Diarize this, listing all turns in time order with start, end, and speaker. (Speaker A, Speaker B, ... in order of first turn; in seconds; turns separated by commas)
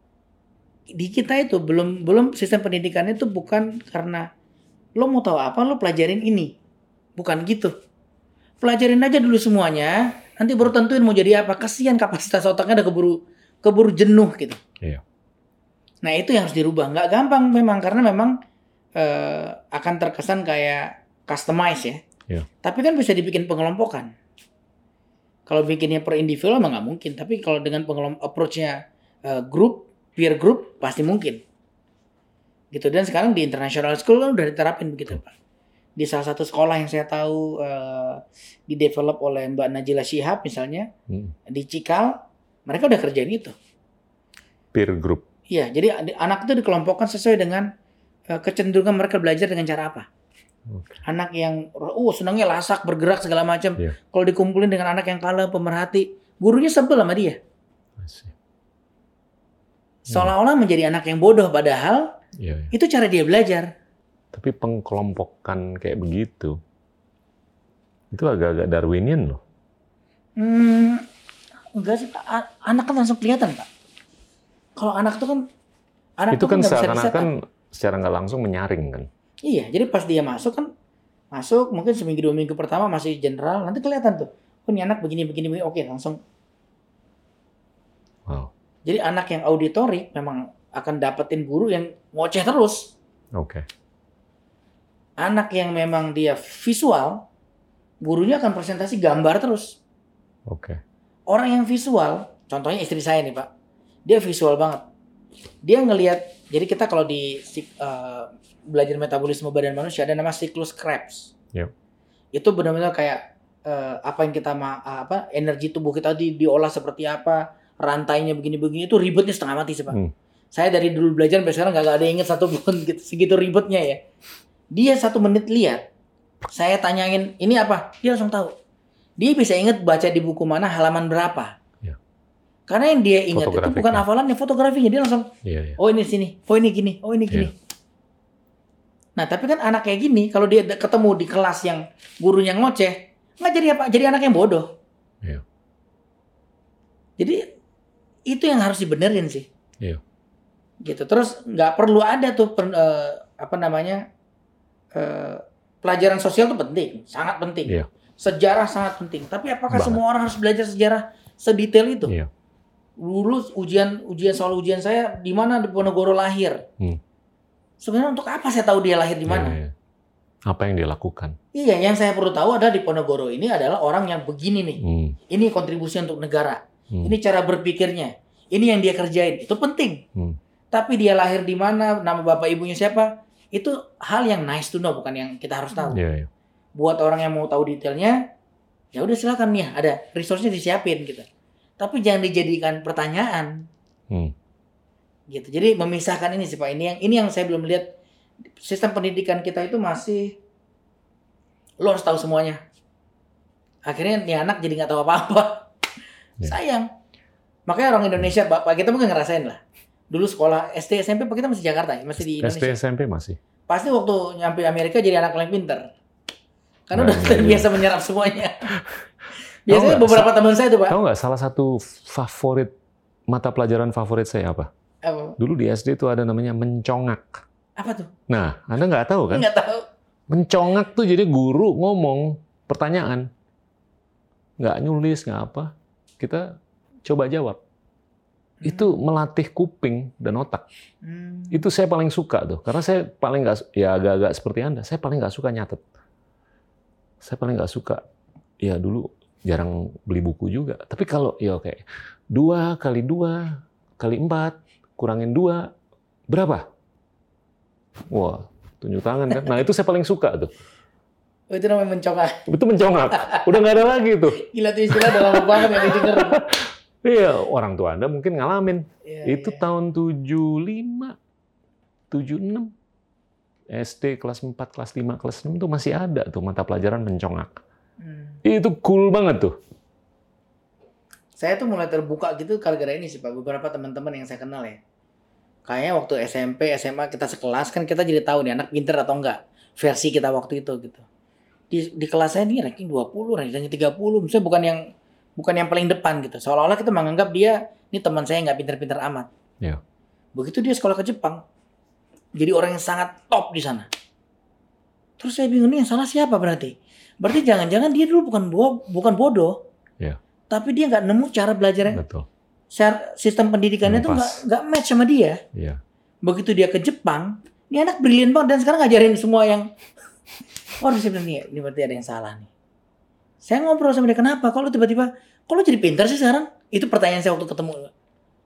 Speaker A: 0.9-4.3, Speaker A: 5.0-6.5, Speaker A: 7.2-7.7, Speaker A: 8.6-14.6, Speaker A: 16.0-18.4, Speaker A: 19.0-22.0, Speaker A: 22.6-24.1, Speaker A: 25.5-31.4, Speaker A: 32.7-35.3, Speaker A: 36.0-40.9, Speaker B: 41.1-41.3, Speaker A: 41.5-43.5, Speaker B: 44.7-45.3, Speaker A: 45.5-47.7, Speaker A: 48.3-50.1, Speaker B: 50.7-51.0, Speaker A: 51.0-57.4, Speaker B: 58.0-58.4, Speaker A: 60.1-62.1, Speaker B: 62.4-62.7, Speaker A: 62.7-63.7, Speaker B: 64.3-66.6, Speaker B: 68.1-69.4, Speaker A: 70.4-71.0, Speaker A: 71.8-73.7, Speaker A: 74.8-75.5, Speaker A: 76.2-77.3, Speaker B: 76.3-79.1, Speaker A: 79.5-80.7, Speaker A: 81.3-86.2, Speaker B: 88.3-88.5, Speaker A: 88.8-93.0, Speaker B: 93.4-93.7, Speaker A: 95.2-97.2, Speaker A: 98.0-99.8, Speaker B: 100.5-100.8, Speaker A: 101.3-103.5, Speaker A: 104.1-104.8, Speaker A: 105.6-111.3, Speaker A: 112.3-120.0, Speaker A: 120.5-124.0, Speaker A: 124.7-125.8, Speaker A: 126.5-128.5, Speaker A: 129.2-131.5, Speaker A: 132.7-137.5, Speaker B: 133.3-134.1, Speaker B: 135.4-135.8, Speaker A: 139.2-144.7, Speaker A: 147.2-147.5, Speaker A: 148.3-149.5, Speaker A: 150.8-154.1, Speaker A: 154.9-162.1, Speaker B: 159.7-160.0, Speaker A: 163.0-166.6, Speaker A: 167.8-169.6, Speaker B: 169.3-169.7, Speaker B: 170.5-171.4, Speaker A: 171.5-180.0, Speaker B: 174.8-175.2, Speaker A: 180.7-186.0, Speaker B: 185.9-186.3, Speaker A: 186.8-188.2, Speaker A: 188.9-191.3, Speaker A: 191.8-193.7, Speaker A: 195.3-197.9, Speaker A: 198.6-200.4, Speaker A: 201.8-202.6, Speaker A: 203.9-205.7, Speaker A: 206.4-206.9, Speaker A: 207.7-212.7, Speaker B: 212.2-213.4, Speaker A: 213.7-215.9, Speaker A: 216.9-218.8, Speaker B: 216.9-217.8, Speaker B: 218.8-219.0, Speaker A: 219.7-221.0, Speaker B: 219.7-220.3, Speaker B: 220.9-222.7, Speaker B: 223.3-224.7, Speaker A: 225.0-225.4, Speaker B: 225.4-227.4, Speaker A: 227.8-228.1, Speaker B: 228.3-229.5, Speaker A: 229.3-229.9, Speaker B: 230.3-233.3, Speaker B: 234.6-237.6, Speaker A: 238.6-238.9, Speaker B: 238.6-240.7, Speaker A: 241.0-241.6, Speaker B: 241.5-245.8, Speaker B: 247.2-248.0, Speaker B: 248.6-255.7, Speaker B: 256.3-256.7, Speaker B: 258.1-260.6, Speaker A: 261.5-262.5, Speaker B: 262.5-271.2, Speaker A: 263.1-263.6, Speaker A: 264.3-266.4, Speaker A: 269.1-269.6, Speaker B: 272.1-272.7, Speaker B: 273.7-277.6, Speaker A: 278.0-278.4, Speaker B: 278.4-279.6, Speaker A: 281.4-284.8, Speaker A: 285.7-291.0, Speaker A: 291.7-294.8, Speaker A: 295.4-299.3, Speaker A: 300.4-301.4, Speaker A: 302.4-303.9, Speaker A: 305.2-309.6, Speaker A: 310.5-312.0, Speaker B: 311.9-312.3, Speaker A: 312.7-315.4, Speaker B: 313.8-314.4, Speaker B: 315.5-315.8, Speaker A: 316.2-319.7, Speaker A: 320.8-322.5, Speaker A: 323.4-327.9